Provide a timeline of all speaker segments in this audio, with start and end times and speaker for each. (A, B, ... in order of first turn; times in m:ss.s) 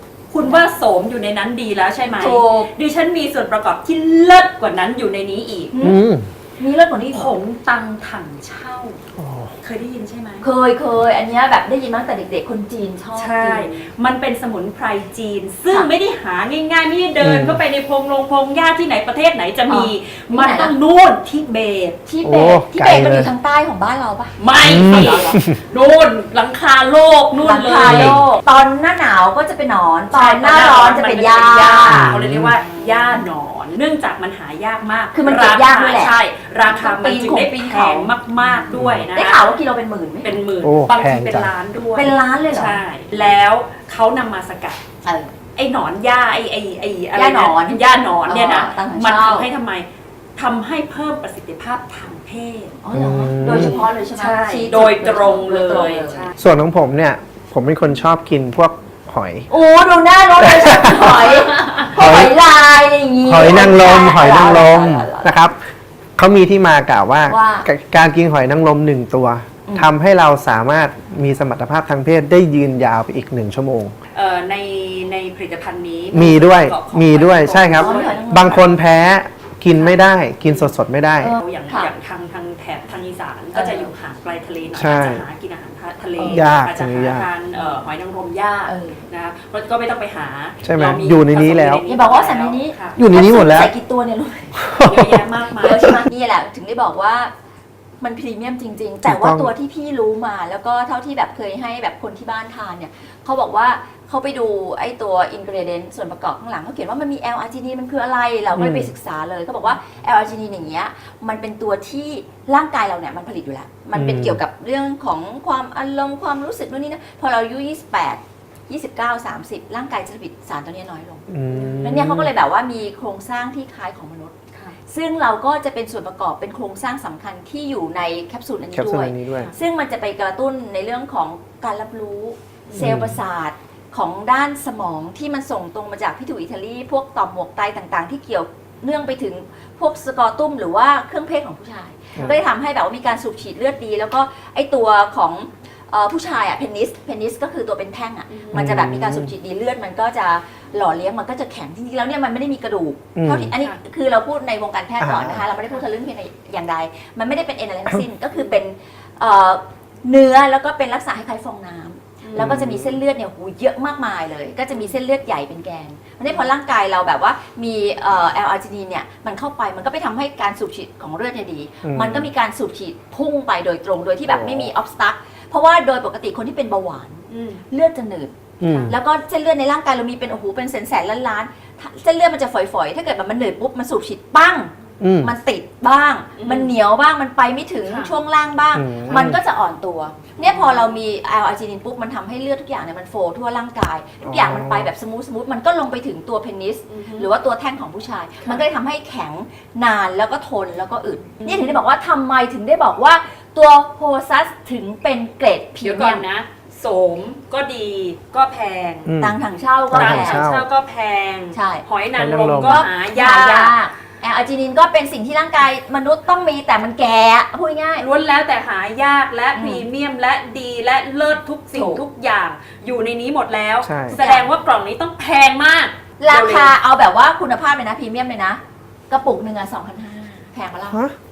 0:00.3-0:05.7 A
0:02.2-0:02.7 B
0:05.7-0:06.0 B
0:05.8-0:06.3 C
0:06.6-0:07.4 B
0:07.1-0:09.0 A
0:09.2-0:09.5 C
0:09.6-0:10.4 A
0:10.4-0:13.9 B
0:13.2-0:22.0 A
0:17.2-0:17.6 C
0:19.7-0:20.7 B
0:22.1-0:25.4 B
0:22.2-0:23.3 C
0:24.4-0:28.2 A
0:24.6-0:25.6 C
0:27.4-0:33.2 B
0:27.8-0:28.2 C
0:30.1-0:39.5 A
0:31.9-0:32.6 C
0:35.1-0:36.2 B
0:36.7-0:40.4 B
0:38.7-0:39.1 C
0:40.2-0:44.8 A
0:40.6-0:41.5 C
0:42.0-0:42.8 B
0:45.0-0:45.3 B
0:45.6-0:52.8 A
0:47.2-0:49.5 B
0:52.8-0:56.3 B
0:52.9-0:53.8 C
0:53.4-0:56.4 A
0:56.4-0:59.5 C
0:59.5-1:05.3 B
1:00.4-1:01.3 C
1:01.2-1:01.9 A
1:01.9-1:02.4 C
1:03.2-1:05.6 C
1:06.2-1:13.9 C
1:07.3-1:07.7 B
1:09.7-1:09.9 B
1:14.1-1:18.7 A
1:16.1-1:21.4 C
1:17.7-1:18.7 B
1:21.2-1:21.9 B
1:21.2-1:33.0 A
1:23.5-1:23.9 B
1:24.7-1:25.2 C
1:26.3-1:27.3 C
1:28.7-1:29.0 B
1:30.6-1:31.8 C
1:31.9-1:34.7 B
1:33.0-1:33.7 C
1:34.6-1:35.3 C
1:34.8-1:36.0 A
1:35.6-1:37.3 B
1:38.0-2:01.2 B
1:39.0-1:39.5 C
1:48.6-1:48.9 C
1:53.9-1:54.4 C
2:01.3-2:02.3 C
2:01.5-2:02.1 A
2:01.8-2:04.4 B
2:04.9-2:58.3 B
2:08.7-2:09.5 C
2:12.7-2:13.0 A
2:12.8-2:13.2 C
2:28.3-2:28.7 A
2:28.5-2:29.3 C
2:33.2-2:33.5 C
2:35.0-2:35.4 C
2:42.2-2:42.6 A
2:42.4-2:43.0 C
2:51.8-2:52.3 C
2:54.3-2:54.7 C
2:57.3-2:57.6 A
2:58.6-2:58.9 C
2:58.7-2:59.0 A
2:58.9-3:26.2 B
3:05.0-3:05.3 C
3:06.4-3:06.7 A
3:07.9-3:08.1 A
3:08.7-3:09.4 C
3:10.4-3:10.9 A
3:14.2-3:14.9 C
3:16.9-3:17.3 A
3:25.8-3:29.1 A
3:29.1-3:29.4 C
3:29.2-3:30.5 B
3:29.9-3:30.6 C
3:29.9-3:33.8 A
3:31.5-3:31.8 B
3:32.2-3:32.8 C
3:32.6-3:38.1 B
3:38.0-3:46.7 A
3:39.6-3:39.8 B
3:41.7-3:42.0 B
3:43.8-3:44.2 C
3:44.1-3:44.5 B
3:46.2-3:51.0 B
3:50.9-3:51.2 C